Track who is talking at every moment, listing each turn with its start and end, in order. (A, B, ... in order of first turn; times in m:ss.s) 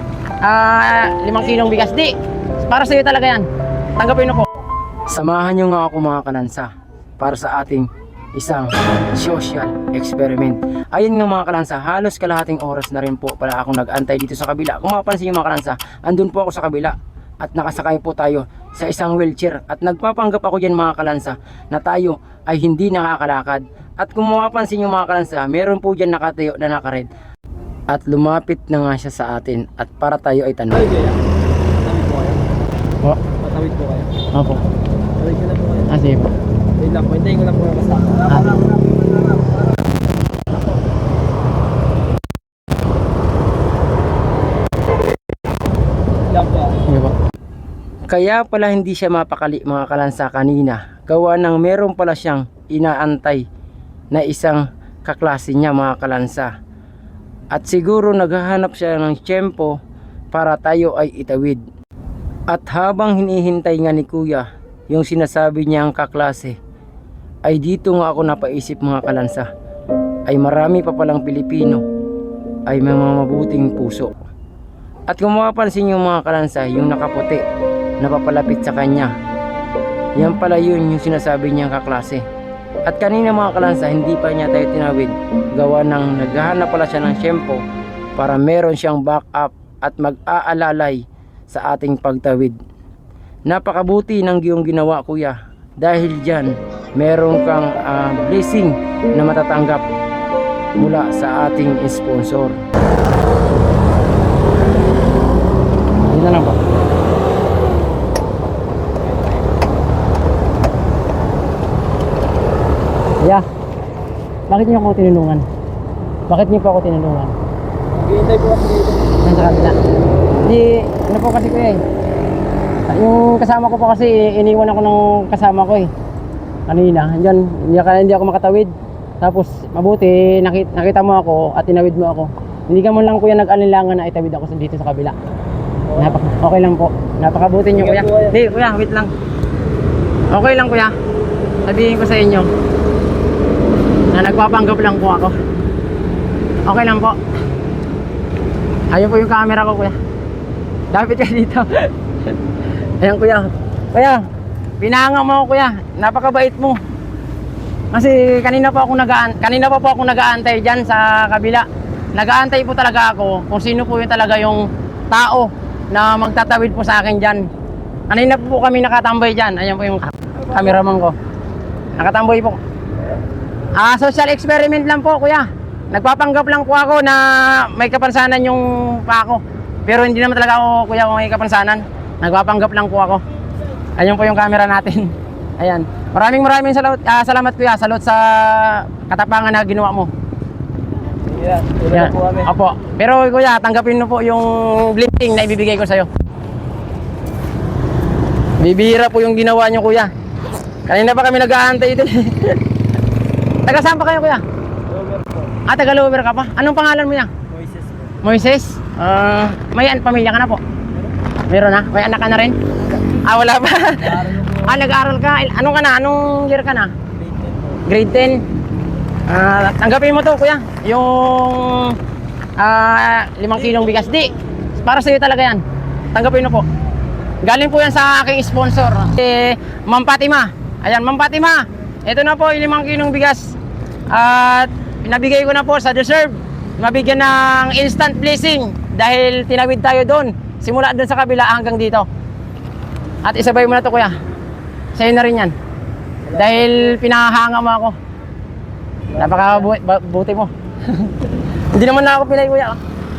0:00.4-0:03.4 A
0:04.0-0:04.5 A
0:05.1-0:27.1 B
0:27.9-0:30.9 B
0:30.7-0:31.2 C
0:31.8-0:32.4 C
0:33.4-0:34.1 C
0:34.3-0:34.6 A
0:35.2-0:35.9 C
0:35.9-0:36.3 A
0:36.8-0:39.4 C
0:38.3-0:38.6 A
0:46.3-0:46.8 C
0:46.9-0:47.1 A
0:48.1-0:53.4 B
0:54.1-0:56.5 B
0:57.5-0:59.8 B
1:00.3-1:01.6 B
1:02.5-1:06.6 B
1:07.4-1:09.5 B
1:10.3-1:11.8 B
1:12.7-1:14.2 B
1:15.1-1:17.4 B
1:18.0-1:19.1 B
1:20.2-1:22.2 B
1:22.8-1:27.6 B
1:28.2-1:32.6 B
1:33.5-1:39.8 B
1:40.8-1:42.6 B
1:46.1-1:46.6 A
1:53.2-1:53.4 A
1:54.5-1:55.4 A
1:56.3-1:57.3 A
1:58.0-1:59.1 C
1:59.2-1:59.8 A
2:00.4-2:01.8 A
2:02.9-2:05.9 A
2:06.7-2:15.2 A
2:15.9-2:16.1 C
2:16.0-2:19.1 A
2:17.7-2:18.3 C
2:20.3-2:20.9 A
2:21.6-2:22.5 A
2:24.1-2:25.3 A
2:26.6-2:27.2 A
2:28.9-2:30.0 A
2:30.9-2:31.9 A
2:33.0-2:34.2 A
2:34.8-2:36.8 A
2:37.9-2:47.5 A
2:48.1-2:51.2 A
2:52.0-2:52.6 A
2:53.8-3:03.2 A
3:04.0-3:10.1 A
3:11.2-3:12.5 C
3:11.9-3:16.1 A
3:18.6-3:20.1 A
3:20.8-3:22.6 A
3:23.6-3:24.4 A
3:24.9-3:25.5 C
3:25.6-3:27.3 A
3:27.5-3:28.2 C
3:28.2-3:30.6 A
3:31.5-3:32.6 A
3:33.1-3:36.9 A
3:34.1-3:34.5 C
3:37.2-3:37.8 C
3:37.8-3:38.4 A
3:39.3-3:42.0 A
3:42.6-3:46.6 A
3:47.4-3:53.6 A
3:54.1-4:02.1 A
4:03.2-4:04.2 A
4:04.9-4:05.5 A
4:06.3-4:06.9 C
4:06.3-4:08.0 A
4:09.1-4:09.6 C
4:09.1-4:12.8 A